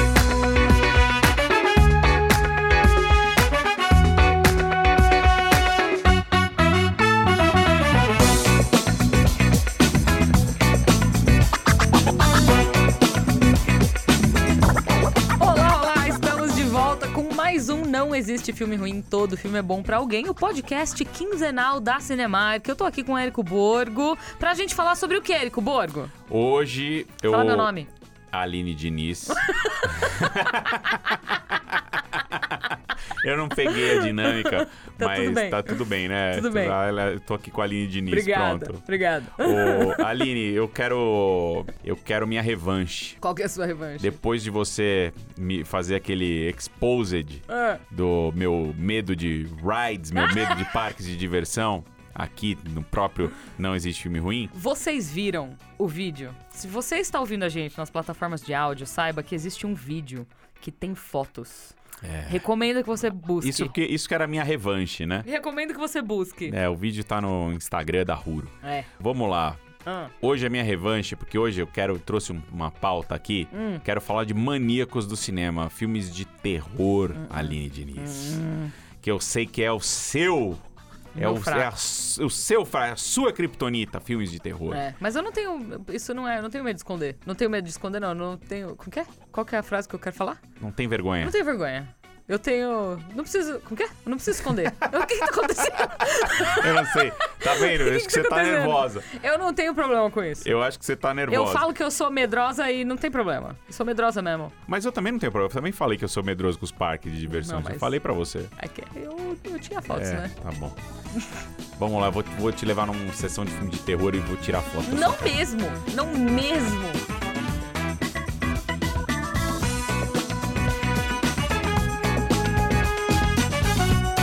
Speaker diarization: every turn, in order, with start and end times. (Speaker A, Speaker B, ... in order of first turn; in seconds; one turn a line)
Speaker A: 15.4-26.1
Speaker B: 26.3-27.7
Speaker A: 27.2-27.9
Speaker B: 28.3-43.2
Speaker A: 29.3-31.2
Speaker A: 33.6-35.8
Speaker A: 36.3-36.8
Speaker A: 38.1-40.1
Speaker A: 43.2-44.2
Speaker B: 44.0-54.5
Speaker A: 47.5-47.8
Speaker A: 50.2-50.6
Speaker A: 54.5-63.8
Speaker B: 62.0-62.5
Speaker B: 63.4-65.3
Speaker A: 65.2-66.5
Speaker B: 66.5-69.6
Speaker A: 68.6-68.9
Speaker A: 69.8-70.1
Speaker B: 70.2-78.4
Speaker A: 73.5-73.8
Speaker A: 77.2-78.7
Speaker B: 79.0-80.6
Speaker A: 81.2-81.7
Speaker B: 81.2-84.8
Speaker A: 84.7-90.4
Speaker B: 90.6-91.3
Speaker A: 91.2-100.5
Speaker B: 94.9-95.3
Speaker B: 96.4-99.1
Speaker B: 100.4-101.7
Speaker A: 101.3-104.5
Speaker B: 104.7-108.5
Speaker A: 107.3-107.9
Speaker A: 108.6-110.3
Speaker B: 109.9-110.8
Speaker B: 111.8-115.3
Speaker A: 114.9-117.0